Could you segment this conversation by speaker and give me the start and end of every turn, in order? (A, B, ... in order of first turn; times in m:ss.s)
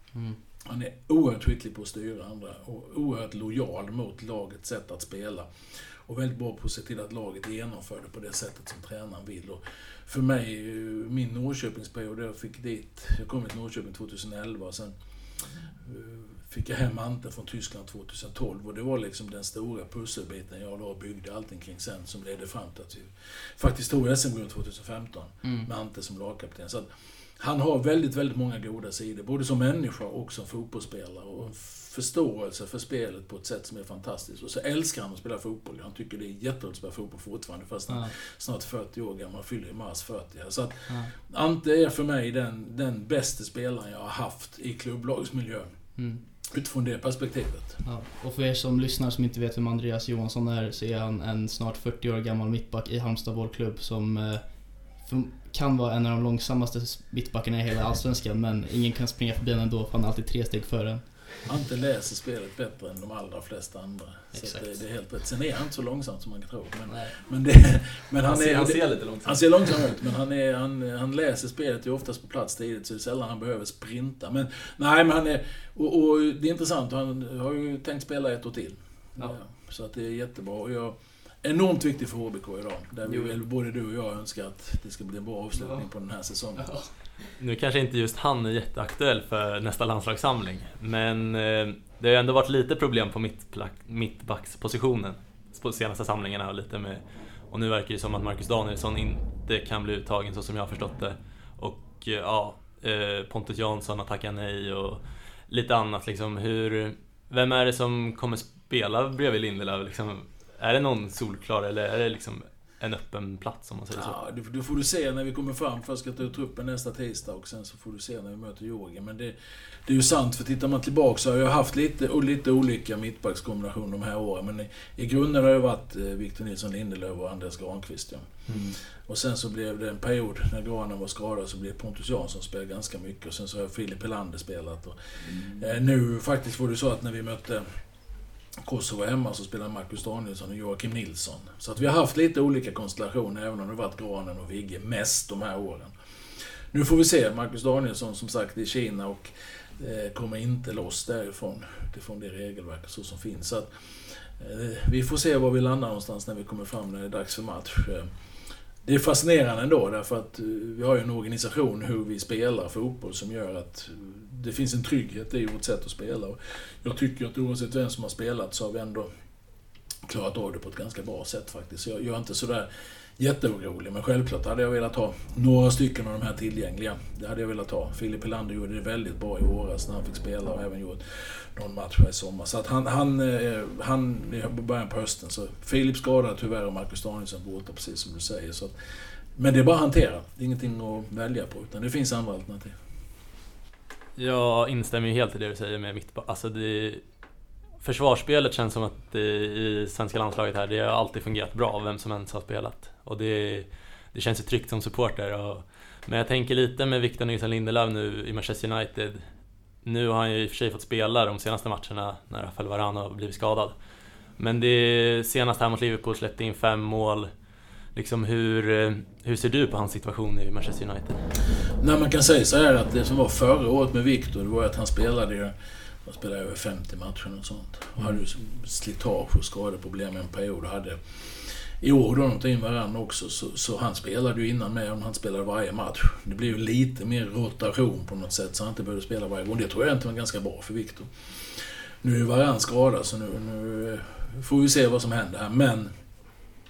0:00.6-0:47.8 A
0:25.4-0:25.7 B
0:37.9-0:38.1 B
0:40.9-0:41.1 B
0:46.0-0:46.2 B
0:47.8-1:01.4 B
1:01.4-1:26.8 A
1:04.3-1:04.8 B
1:06.8-1:07.2 B
1:08.2-1:10.0 C
1:23.1-1:23.4 B
1:25.6-1:25.8 B
1:26.6-1:27.3 B
1:27.4-1:54.2 C
1:53.9-2:17.7 A
2:08.5-2:08.8 C
2:18.6-2:25.9 A
2:26.7-2:38.1 A
2:38.8-2:49.1 A
2:50.1-3:12.8 A
3:14.2-3:17.0 C
3:17.8-3:33.8 C
3:34.4-3:41.2 C
3:41.8-3:45.5 A
3:46.0-4:05.9 A